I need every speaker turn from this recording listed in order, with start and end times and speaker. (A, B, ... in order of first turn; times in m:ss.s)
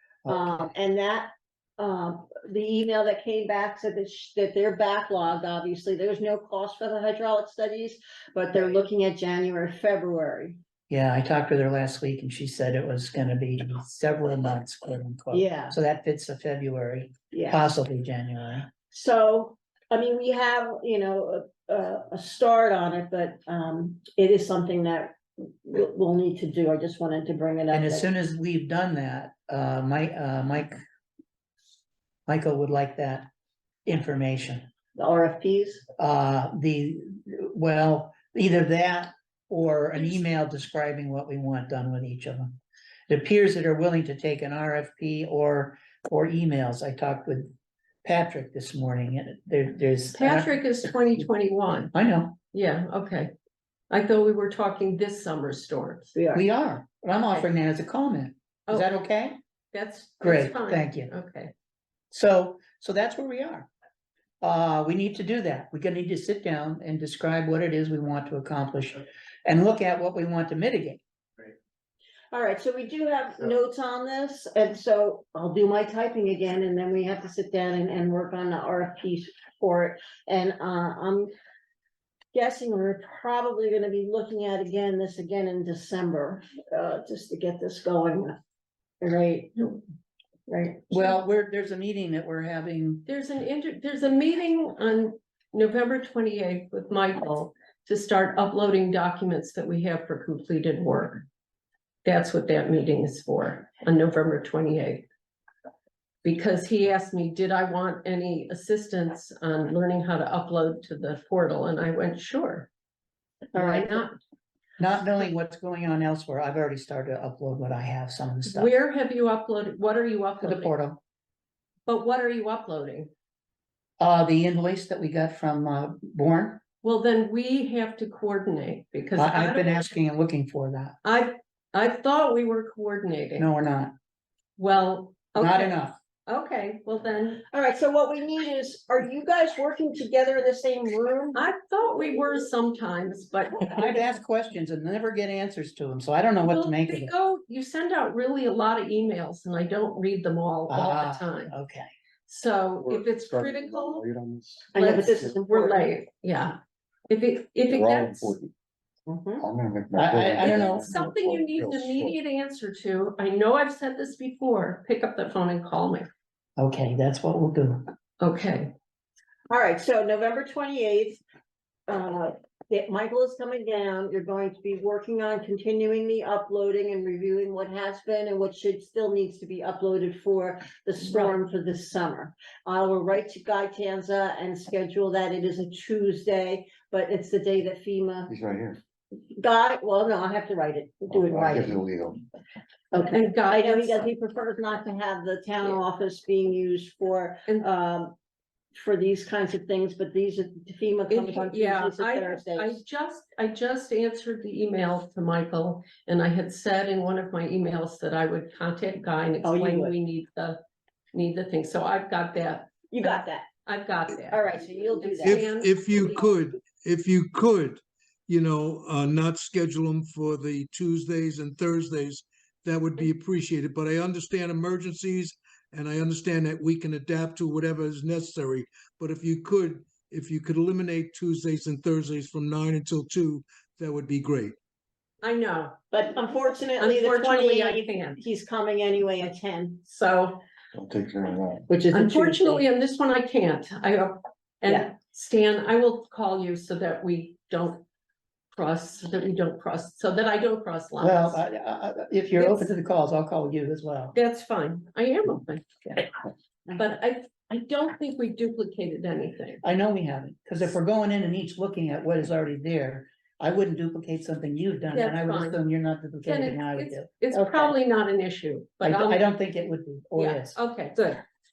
0:00.2-0:00.6 A
0:00.3-0:10.6 B
0:10.9-0:18.7 A
0:15.3-0:15.8 B
0:17.3-0:17.7 B
0:18.9-0:28.1 B
0:27.7-0:30.8 A
0:32.3-0:33.3 A
0:33.8-0:34.7 A
0:34.9-0:35.8 B
0:36.0-0:42.6 A
0:43.1-0:47.5 A
0:48.0-0:50.7 A
0:50.1-0:51.9 C
0:51.9-0:52.4 A
0:52.5-0:53.3 C
0:53.9-0:56.1 C
0:56.1-0:56.4 B
0:56.3-0:59.4 A
0:58.7-0:58.9 C
0:59.7-1:01.5 C
1:00.2-1:01.1 A
1:02.1-1:03.7 A
1:04.4-1:11.0 A
1:12.3-1:21.3 B
1:22.3-1:28.4 B
1:29.0-1:29.8 B
1:30.5-1:31.1 B
1:30.9-1:33.0 A
1:33.1-1:41.2 C
1:42.0-1:45.1 C
1:46.2-1:52.7 C
1:53.5-1:54.0 B
1:53.5-1:54.1 C
1:54.8-1:58.7 A
1:58.4-2:00.7 C
2:00.4-2:01.0 A
2:01.8-2:03.1 C
2:04.0-2:06.6 A
2:06.8-2:09.9 C
2:09.2-2:11.0 A
2:11.0-2:13.5 C
2:13.4-2:13.9 A
2:14.6-2:17.4 C
2:15.4-2:16.0 A
2:17.5-2:21.4 B
2:21.3-2:24.0 C
2:23.6-2:27.1 A
2:26.4-2:31.5 C
2:30.7-2:31.9 A
2:32.3-2:34.0 C
2:32.8-2:35.3 D
2:34.7-2:35.9 B
2:34.7-2:36.6 C
2:37.1-2:38.4 C
2:37.7-2:38.5 D
2:39.1-2:39.4 B
2:39.4-2:42.1 D
2:39.9-2:41.0 A
2:40.4-2:46.1 C
2:46.6-2:47.9 A
2:48.2-2:48.7 C
2:49.5-2:51.2 B
2:51.9-3:08.3 B
3:01.0-3:01.3 C
3:08.3-3:08.8 D
3:09.4-3:11.8 B
3:11.1-3:12.2 D
3:12.9-3:18.1 B
3:12.9-3:14.0 C
3:18.7-3:22.8 B
3:21.1-3:30.6 C
3:29.4-3:29.9 B
3:31.1-3:34.4 C
3:32.9-3:33.5 B
3:34.3-3:35.5 B
3:35.0-3:36.2 C
3:35.2-3:54.6 E
3:55.2-3:55.8 C
3:55.9-3:59.8 B
3:56.8-3:58.2 C
3:59.8-4:00.4 C
4:00.7-4:01.6 D
4:01.7-4:02.6 B
4:01.9-4:07.8 C
4:08.5-4:11.4 C
4:11.0-4:14.1 A
4:12.4-4:12.7 C
4:14.1-4:16.0 C
4:16.8-4:19.6 C
4:19.6-4:27.7 A
4:24.9-4:25.6 C
4:26.2-4:29.3 C
4:28.8-4:30.6 A
4:30.2-4:31.2 C